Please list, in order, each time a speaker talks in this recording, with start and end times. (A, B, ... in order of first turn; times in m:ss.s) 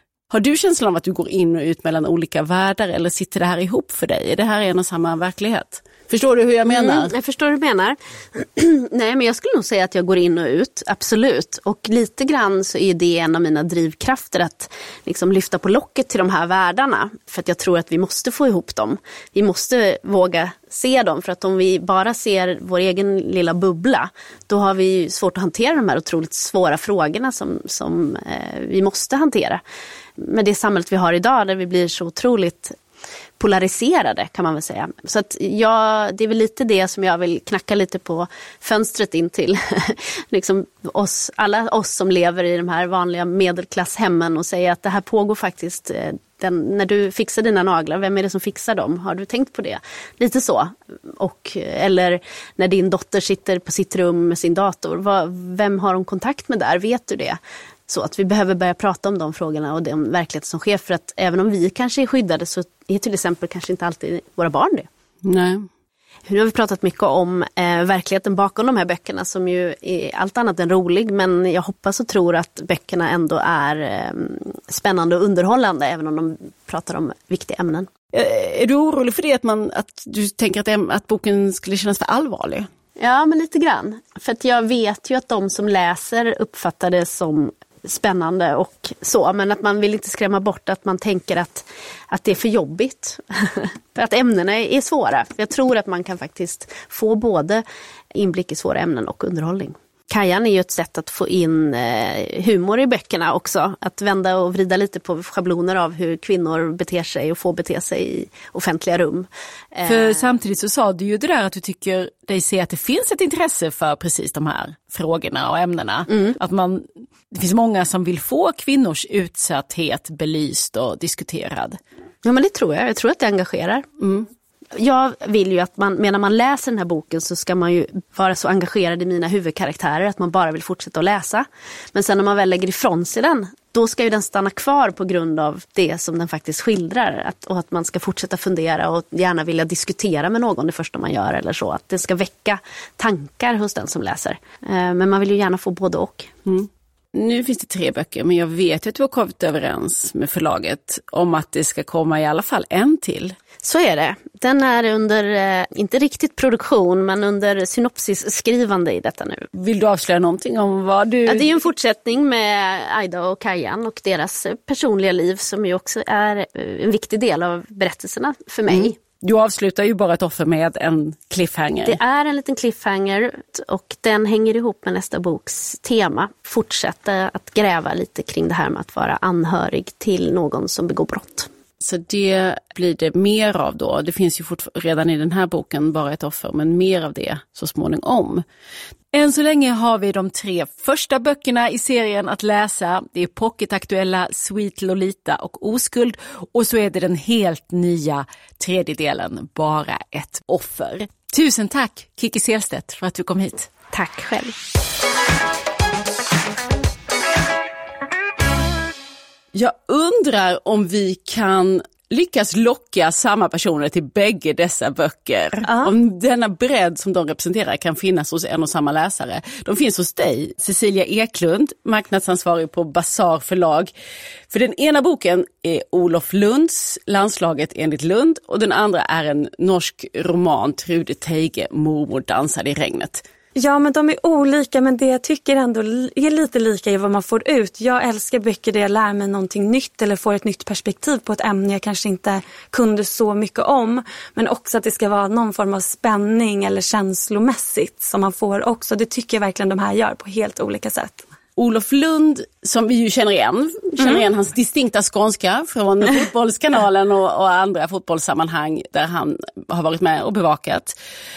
0:00.3-0:07.1 A
0:06.7-0:29.6 B
0:30.2-0:32.8 B
0:33.4-1:04.9 B
1:05.2-1:05.7 A
1:06.3-1:17.9 B
1:18.1-1:22.7 A
1:23.0-1:50.3 B
1:49.8-2:01.8 A
2:02.2-2:03.9 B
2:04.0-2:04.3 A
2:04.8-2:26.3 B
2:26.5-2:33.4 A
2:33.6-2:39.5 B
2:39.5-2:41.5 A
2:41.3-2:49.0 B
2:48.7-2:52.0 A
2:51.8-3:01.5 B
3:01.8-3:08.4 A
3:09.1-3:23.7 A
3:23.9-3:24.6 B
3:29.5-3:43.9 A
3:44.5-3:53.2 A
3:53.6-4:11.2 C
4:11.6-4:21.0 A